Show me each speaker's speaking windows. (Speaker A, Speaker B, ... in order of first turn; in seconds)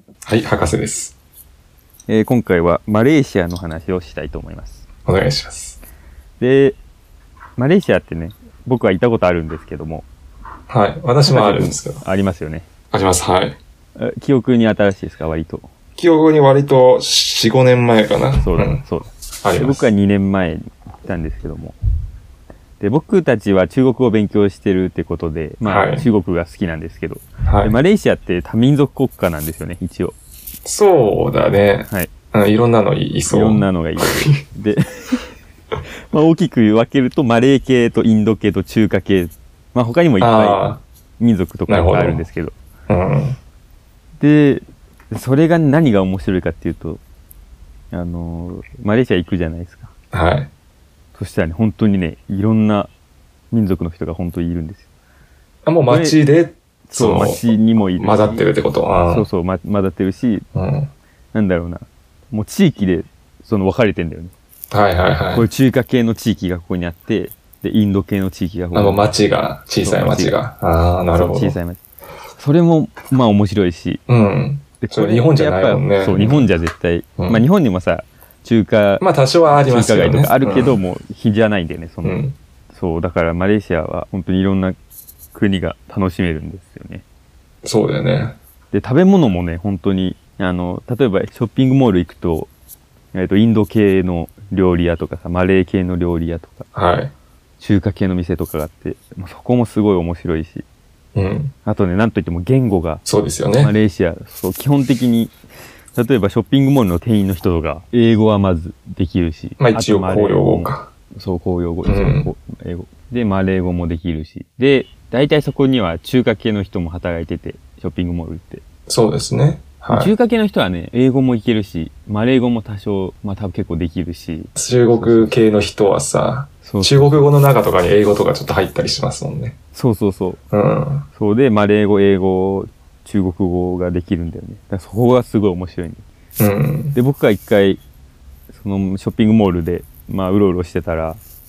Speaker A: 0.3-1.1, 5.0-5.8, 10.7-12.0, 12.9-13.6, 16.0-18.8, 19.4-19.8, 25.6-26.1, 27.5-27.7, 30.6-34.4, 40.2-40.8, 41.7-42.2, 42.9-43.4, 50.1-50.5, 55.6-57.4, 58.0-59.3, 60.5-60.9, 64.7-65.5, 68.7-71.5, 74.1-76.5, 77.2-77.4, 79.0-80.8, 82.0-82.3, 87.6-88.3, 96.7-97.1, 101.1-101.5, 103.0-103.7, 109.6-110.9, 111.8-112.3, 118.9-120.1, 124.5-129.5, 130.5-131.1, 136.4-136.9
Speaker B: 2.1-4.8, 6.4-6.8, 7.6-10.1, 11.2-12.7, 14.0-15.7, 18.4-21.7, 22.8-30.1, 33.3-34.8, 36.1-42.5, 44.2-47.0, 47.9-49.9, 51.1-52.9, 53.5-54.9, 55.9-56.2, 56.9-58.5, 59.0-60.4, 61.3-64.3, 65.3-69.1, 69.8-70.4, 71.1-71.8, 72.4-74.0, 74.8-84.8, 85.3-87.0, 88.7-92.5, 93.1-96.7, 97.6-100.6, 101.6-103.0, 103.6-105.3, 105.9-118.6, 119.9-125.4, 126.6-127.2, 129.7-130.4, 131.1-136.0, 136.9-137.8, 138.5-141.2